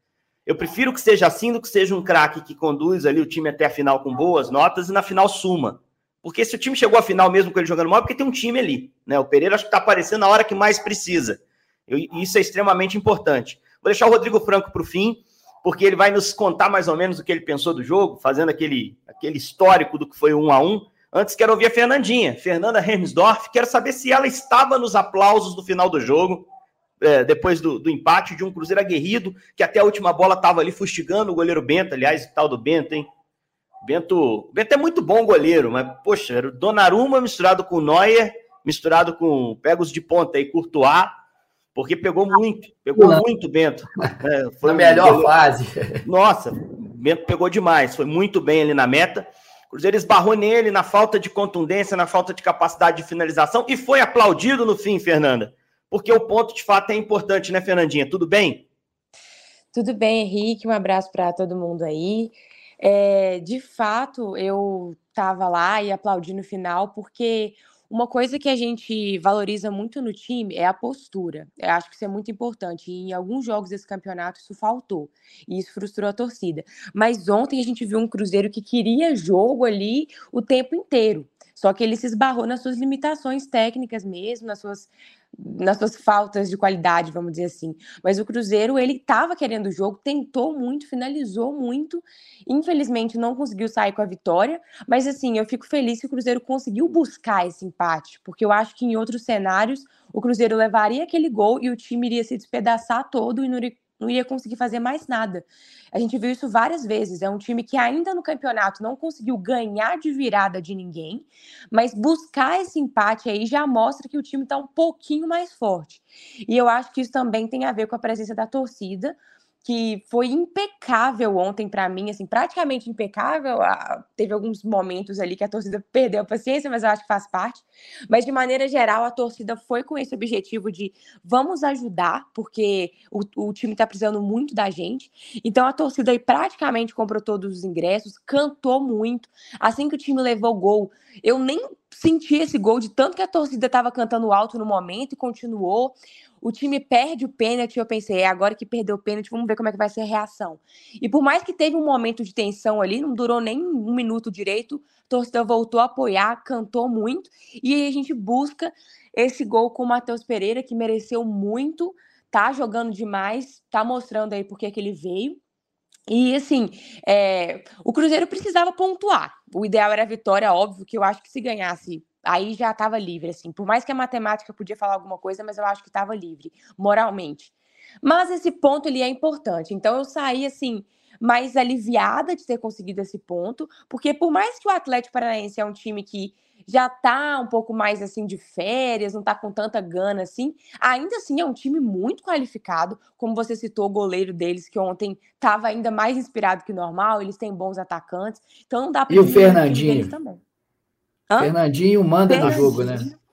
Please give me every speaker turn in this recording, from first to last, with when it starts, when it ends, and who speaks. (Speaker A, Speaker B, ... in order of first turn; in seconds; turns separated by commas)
Speaker A: 0.5-26.5, Speaker A: 27.0-33.1, Speaker A: 33.8-41.1, Speaker A: 41.8-45.3, Speaker B: 43.0-43.2, Speaker B: 44.6-46.0, Speaker A: 46.0-58.7, Speaker C: 59.7-165.4, Speaker C: 166.1-200.4, Speaker B: 199.1-200.1, Speaker C: 201.3-201.5, Speaker B: 201.4-203.1, Speaker C: 202.3-203.2, Speaker A: 202.4-202.8